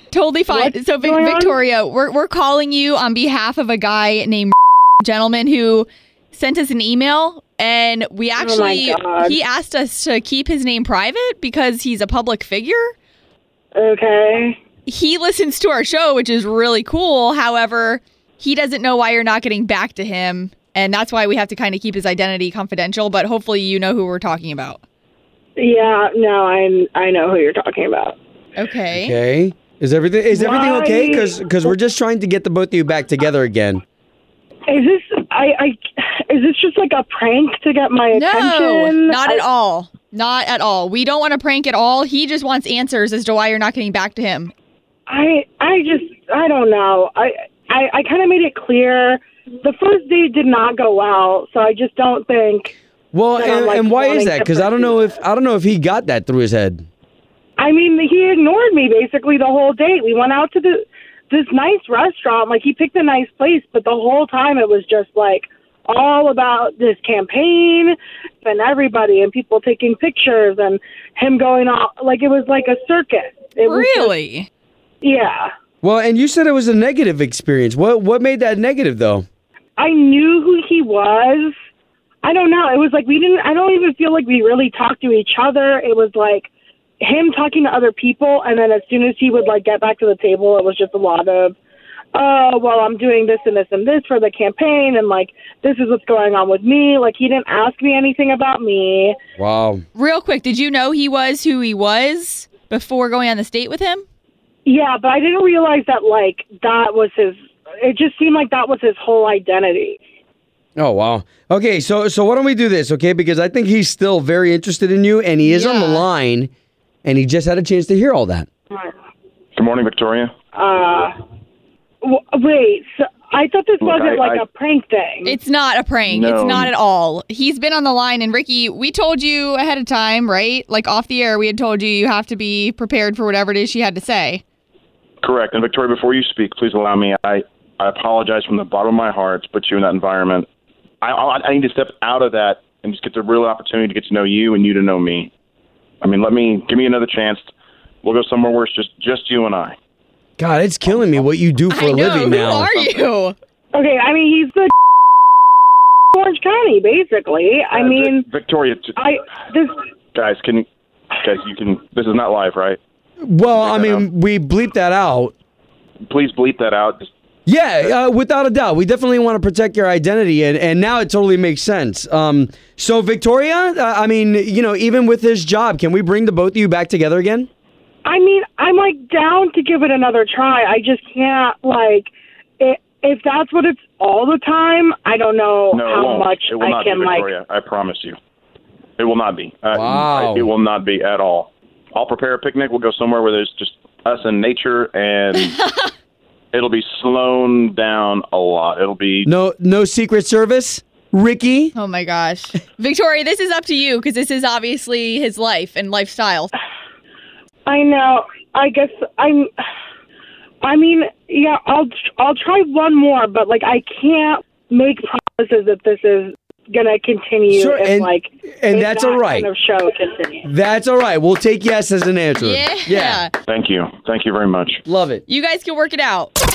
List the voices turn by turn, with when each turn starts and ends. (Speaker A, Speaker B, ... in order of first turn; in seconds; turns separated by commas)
Speaker A: 0.1-12.9, Speaker B: 0.5-1.6, Speaker B: 8.4-9.4, Speaker B: 13.7-14.6, Speaker A: 14.8-24.8, Speaker B: 25.6-28.1, Speaker A: 28.6-29.1, Speaker C: 28.9-33.8, Speaker B: 30.3-31.7, Speaker B: 34.7-39.4, Speaker A: 38.1-44.5, Speaker B: 45.1-52.7, Speaker C: 53.1-56.8, Speaker B: 53.4-55.1, Speaker B: 57.6-74.1, Speaker A: 73.6-74.5, Speaker B: 75.0-75.5, Speaker C: 75.8-79.2, Speaker B: 79.8-81.5, Speaker B: 82.2-91.5, Speaker B: 92.1-99.2, Speaker C: 99.4-99.8, Speaker A: 99.9-104.0, Speaker B: 104.7-110.0, Speaker C: 110.8-116.5, Speaker A: 115.4-116.0, Speaker C: 117.0-118.5, Speaker D: 119.5-120.3, Speaker B: 120.5-121.1, Speaker B: 122.0-125.4, Speaker D: 123.8-124.4, Speaker A: 125.2-134.4, Speaker D: 126.1-126.7, Speaker D: 135.2-140.5, Speaker D: 141.0-145.3, Speaker D: 146.0-147.5, Speaker D: 148.0-149.8, Speaker C: 150.4-152.7, Speaker A: 151.7-153.3, Speaker B: 153.7-154.7, Speaker B: 156.1-158.2, Speaker D: 157.7-159.0, Speaker B: 159.0-159.7, Speaker D: 160.1-160.7, Speaker D: 161.2-162.8, Speaker C: 163.2-165.3, Speaker D: 163.5-164.0, Speaker D: 166.1-167.1, Speaker C: 167.4-177.5, Speaker B: 178.0-187.3, Speaker D: 185.7-188.2, Speaker D: 189.0-195.6, Speaker C: 189.7-190.5, Speaker A: 195.6-195.9, Speaker D: 196.5-199.3, Speaker C: 199.2-201.7, Speaker A: 201.7-206.5, Speaker B: 207.7-209.5, Speaker B: 210.6-220.5, Speaker C: 217.5-219.5, Speaker C: 220.4-223.2, Speaker A: 222.3-223.3, Speaker D: 223.5-224.8, Speaker C: 224.8-225.2, Speaker A: 225.3-226.3